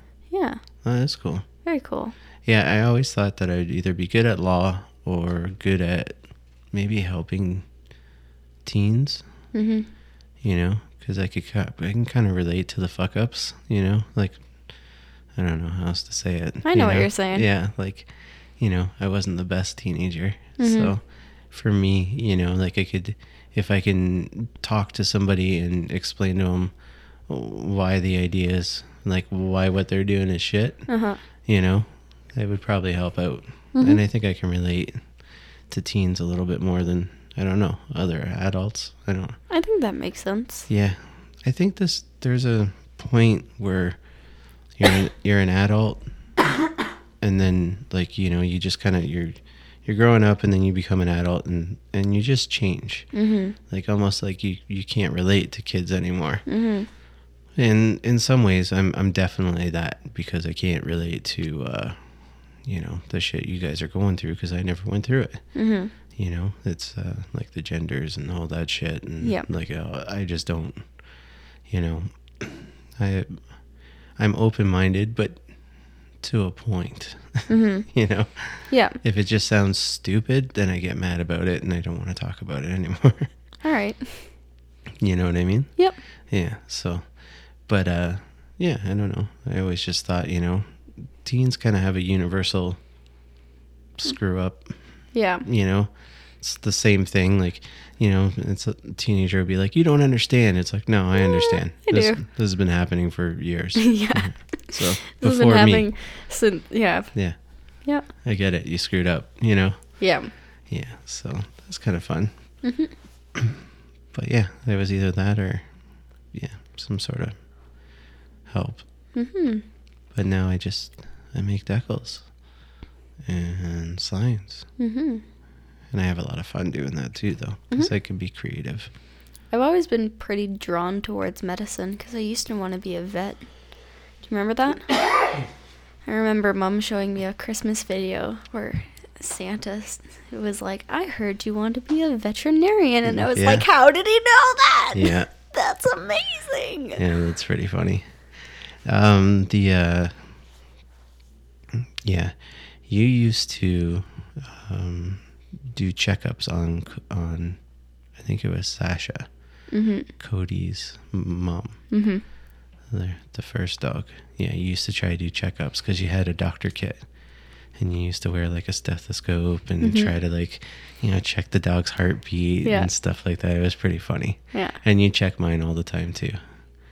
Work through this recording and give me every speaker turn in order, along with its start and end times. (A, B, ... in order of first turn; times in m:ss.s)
0:00.3-0:00.6 A
0:00.8-0:01.4 B
0:01.6-0:02.1 A
0:02.4-0:07.7 B
0:08.6-0:09.2 B
0:09.5-0:09.9 A
0:10.4-0:14.4 B
0:15.3-0:26.7 B
0:16.6-0:17.4 A
0:20.6-0:20.9 A
0:27.3-0:30.9 B
0:30.9-0:31.2 A
0:31.4-0:35.0 B
0:33.7-0:34.0 A
0:35.7-0:39.4 B
0:39.5-0:40.7 A
0:40.7-0:44.0 B
0:44.8-0:46.0 B
0:47.2-0:53.1 B
0:53.1-0:53.6 A
0:53.7-0:56.4 B
0:56.4-0:56.9 A
0:57.6-1:02.0 B
1:02.6-1:05.5 B
1:05.5-1:05.9 A
1:06.1-1:10.8 B
1:09.2-1:09.5 A
1:11.7-1:13.4 B
1:14.2-1:15.4 B
1:16.2-1:23.3 B
1:17.5-1:17.9 A
1:18.7-1:19.0 A
1:23.6-1:24.3 A
1:25.0-1:25.8 B
1:26.3-1:27.0 B
1:27.6-1:30.6 B
1:31.2-1:32.8 B
1:34.0-1:34.7 B
1:35.1-1:35.4 A
1:35.4-1:45.9 B
1:41.2-1:42.2 A
1:43.8-1:47.1 A
1:48.2-1:50.0 B
1:50.0-1:50.3 A
1:50.7-1:52.3 B
1:52.6-1:52.9 A
1:53.4-1:53.6 B
1:54.1-1:55.7 B
1:56.3-1:57.3 B
1:58.5-1:58.8 B
1:59.1-1:59.6 A
2:00.1-2:02.2 B
2:03.2-2:04.6 B
2:04.8-2:05.2 A
2:05.9-2:08.9 B
2:09.5-2:13.5 A
2:14.2-2:14.9 A
2:16.0-2:27.0 A
2:23.1-2:23.6 B
2:24.9-2:25.3 B
2:27.0-2:28.1 B
2:28.8-2:30.2 B
2:31.8-2:37.6 B
2:38.2-2:39.3 B
2:39.7-2:40.1 A
2:40.2-2:41.8 B
2:41.9-2:42.2 A
2:42.9-2:47.0 B
2:47.8-2:56.4 B
2:49.8-2:50.1 A
2:52.6-2:52.9 A